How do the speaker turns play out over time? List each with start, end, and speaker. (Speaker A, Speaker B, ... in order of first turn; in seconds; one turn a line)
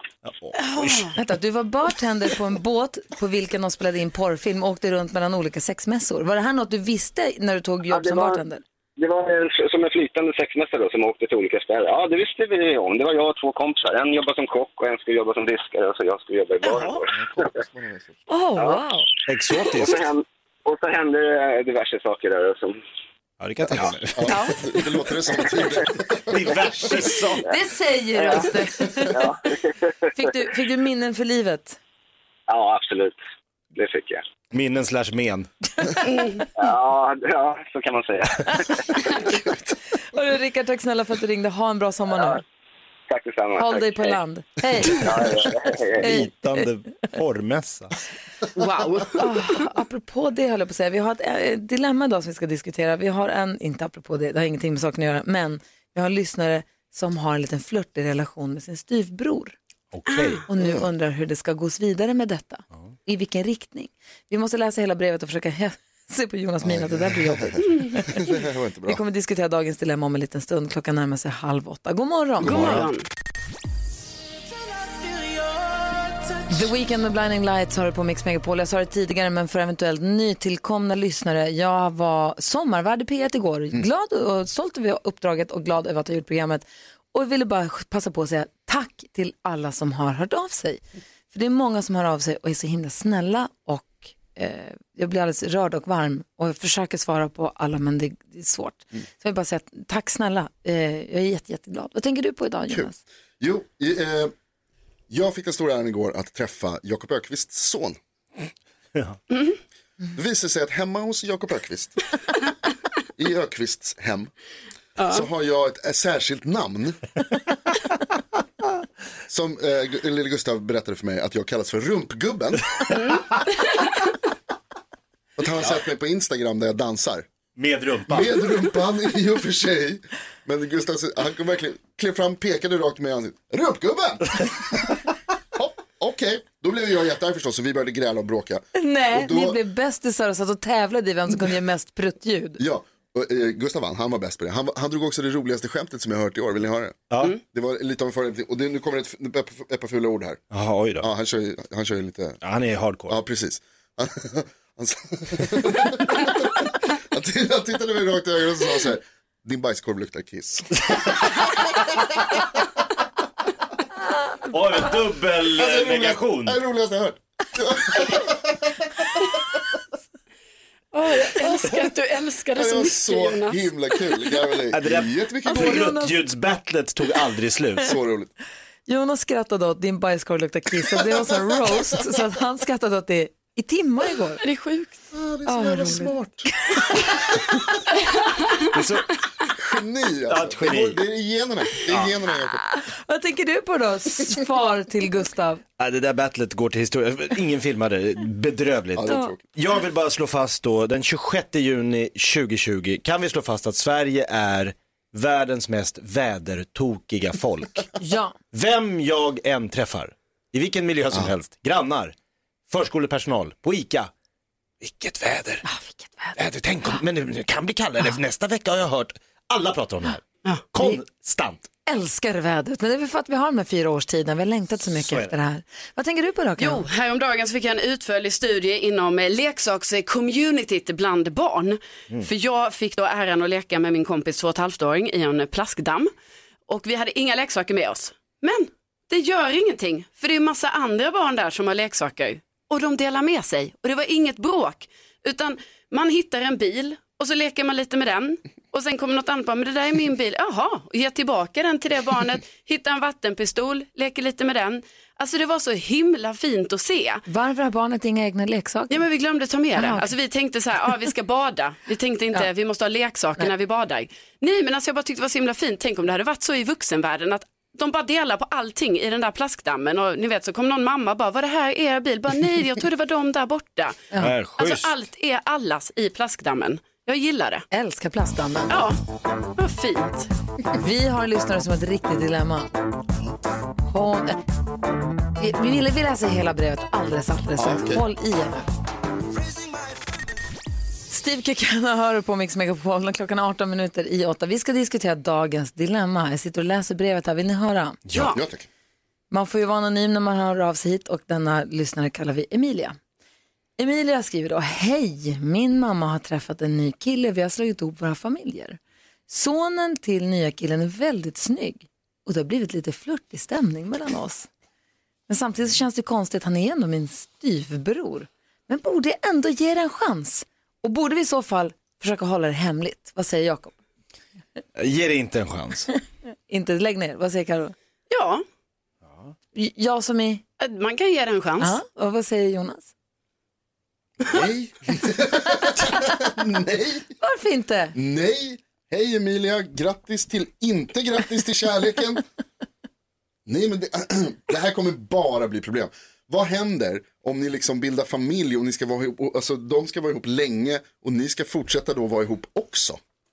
Speaker A: 0.2-1.1
Speaker B: 0.6-1.1
Speaker C: 1.1-8.6
Speaker D: 7.9-8.4
Speaker D: 9.0-17.1
Speaker E: 17.2-18.2
Speaker C: 18.3-19.1
Speaker A: 19.3-20.1
Speaker D: 19.6-22.8
Speaker A: 23.4-24.4
Speaker E: 24.1-26.6
Speaker C: 24.3-24.6
Speaker A: 26.3-27.4
Speaker C: 27.4-29.2
Speaker D: 28.1-28.5
Speaker D: 29.0-29.9
Speaker C: 30.1-31.8
Speaker D: 32.5-33.2
Speaker D: 33.7-34.2
Speaker A: 34.5-35.5
Speaker C: 35.9-36.2
Speaker D: 36.2-39.4
Speaker C: 40.1-42.4
Speaker D: 43.1-44.2
Speaker C: 43.6-45.4
Speaker D: 44.9-46.1
Speaker C: 46.0-46.6
Speaker A: 46.0-47.9
Speaker B: 48.6-49.1
Speaker C: 49.0-59.5
Speaker A: 59.9-60.4
Speaker B: 60.1-60.4
Speaker C: 60.5-68.3
Speaker E: 60.6-60.9
Speaker E: 66.6-69.0
Speaker C: 68.9-72.6
Speaker B: 72.4-73.0
Speaker E: 72.4-72.8
Speaker C: 76.5-103.0
Speaker E: 102.7-104.3
Speaker E: 105.1-108.0
Speaker E: 110.1-112.0
Speaker E: 113.2-114.3
Speaker B: 115.0-115.2
Speaker E: 115.0-117.0
Speaker E: 119.3-123.0
Speaker E: 125.4-127.3
Speaker A: 127.5-128.5
Speaker E: 128.1-135.0
Speaker E: 135.5-139.6
Speaker C: 138.7-142.6
Speaker E: 142.6-150.4
Speaker A: 147.1-147.4
Speaker A: 150.5-151.1
Speaker E: 151.0-152.4
Speaker A: 152.4-153.1
Speaker E: 153.1-160.9
Speaker A: 164.5-166.6
Speaker E: 165.5-168.4
Speaker B: 170.9-173.7
Speaker E: 172.5-175.9
Speaker A: 174.7-177.9
Speaker C: 175.4-176.1
Speaker E: 177.8-178.3
Speaker C: 178.9-184.4
Speaker B: 184.4-184.9
Speaker E: 185.1-186.5
Speaker C: 185.4-187.3
Speaker A: 188.7-189.2
Speaker E: 189.6-192.6
Speaker A: 190.3-191.0
Speaker C: 192.7-195.6
Speaker A: 195.8-207.9
Speaker E: 198.9-199.4
Speaker C: 199.1-199.3
Speaker C: 208.0-208.3
Speaker A: 208.5-212.1
Speaker A: 212.7-214.1
Speaker A: 214.8-215.6
Speaker C: 215.6-216.4
Speaker A: 216.4-221.7
Speaker C: 221.9-226.8
Speaker A: 224.9-225.3
Speaker B: 226.6-236.1
Speaker B: 236.7-257.2
Speaker C: 257.3-259.0
Speaker B: 258.9-274.0
Speaker C: 259.8-260.1
Speaker A: 274.1-274.9
Speaker B: 274.6-277.6
Speaker C: 277.7-278.8
Speaker B: 278.7-279.0
Speaker B: 279.6-280.3
Speaker C: 280.7-282.7
Speaker C: 283.9-284.4
Speaker C: 285.4-288.7
Speaker E: 287.6-288.0
Speaker C: 291.1-298.0
Speaker A: 298.1-298.4
Speaker B: 298.1-298.4
Speaker E: 298.3-298.7
Speaker C: 299.3-303.0
Speaker C: 303.8-314.5
Speaker C: 315.3-323.8
Speaker A: 324.8-325.9
Speaker C: 326.5-327.7
Speaker B: 328.1-328.4
Speaker C: 329.5-330.4
Speaker B: 330.6-331.7
Speaker C: 331.6-332.9
Speaker E: 334.2-337.1
Speaker C: 337.2-337.9
Speaker E: 337.9-342.2
Speaker E: 343.4-353.0